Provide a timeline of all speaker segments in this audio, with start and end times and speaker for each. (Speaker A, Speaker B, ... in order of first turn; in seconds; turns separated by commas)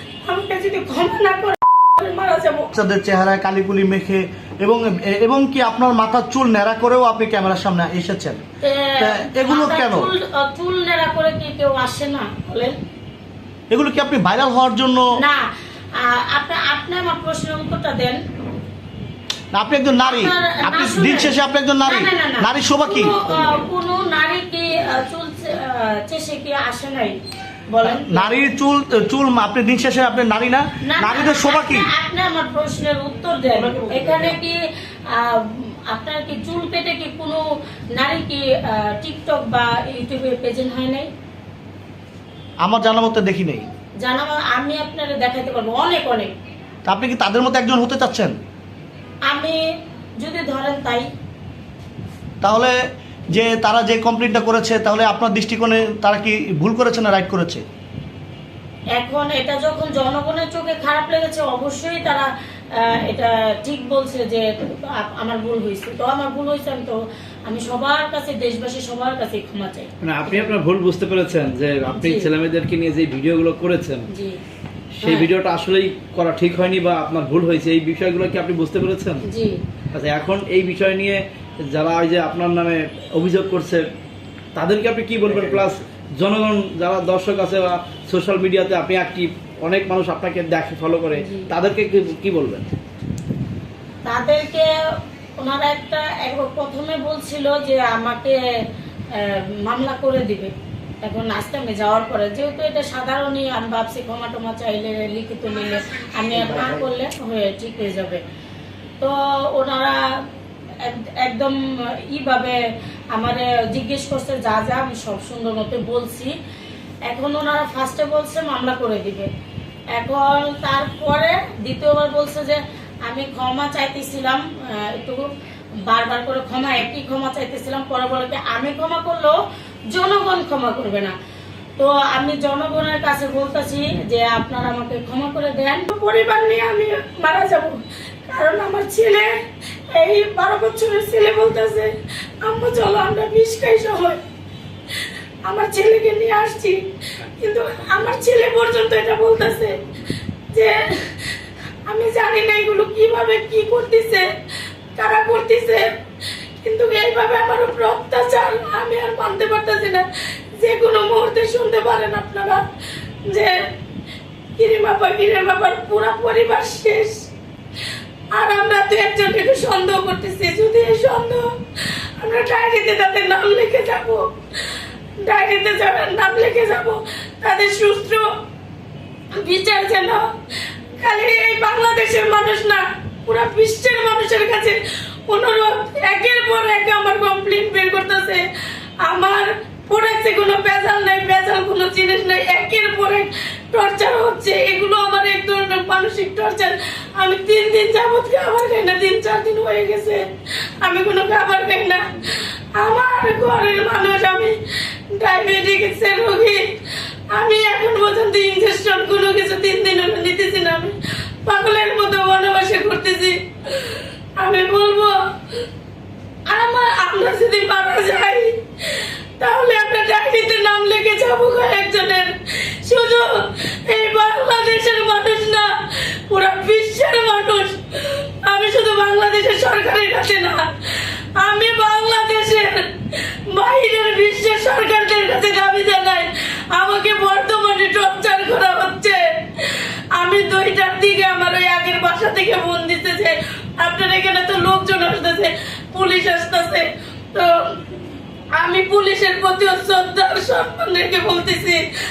Speaker A: 0.3-2.7, Speaker B: 2.7-8.4, Speaker A: 8.6-12.8, Speaker B: 9.0-10.1, Speaker B: 13.7-15.0, Speaker A: 15.2-18.2, Speaker B: 19.5-23.3, Speaker A: 20.0-21.3, Speaker A: 21.9-28.3, Speaker B: 27.8-31.9, Speaker A: 30.9-41.1, Speaker B: 33.7-34.2, Speaker B: 42.6-43.7, Speaker A: 44.0-46.3, Speaker B: 46.9-48.3, Speaker A: 49.3-49.6, Speaker A: 50.2-51.1, Speaker B: 52.4-52.8, Speaker B: 53.3-57.6, Speaker A: 58.9-70.6, Speaker C: 70.0-74.1, Speaker A: 71.9-72.3, Speaker A: 74.1-74.4, Speaker C: 75.0-79.2, Speaker A: 75.0-75.3, Speaker A: 79.2-79.6, Speaker C: 79.9-83.8, Speaker C: 84.5-92.7, Speaker B: 85.3-85.7, Speaker A: 91.1-91.5, Speaker A: 94.0-94.7, Speaker A: 95.4-98.4, Speaker A: 99.1-108.2, Speaker B: 106.3-106.8, Speaker A: 109.0-110.0, Speaker A: 110.8-112.6, Speaker A: 113.1-116.3, Speaker A: 117.1-119.3, Speaker A: 120.0-125.3, Speaker A: 125.9-129.4, Speaker A: 129.9-131.1, Speaker A: 131.8-144.2, Speaker A: 145.4-146.8, Speaker A: 147.4-149.8, Speaker A: 150.5-151.3, Speaker A: 151.9-154.3, Speaker A: 155.0-155.9, Speaker A: 156.6-160.1, Speaker A: 160.6-162.6, Speaker A: 163.3-163.7, Speaker A: 164.6-167.3, Speaker A: 168.3-174.3, Speaker A: 175.2-178.3, Speaker A: 179.3-180.3, Speaker A: 181.0-188.4, Speaker A: 189.0-204.6, Speaker A: 205.1-206.7, Speaker A: 207.3-210.9, Speaker A: 211.5-215.2, Speaker A: 216.5-247.9, Speaker A: 248.6-251.8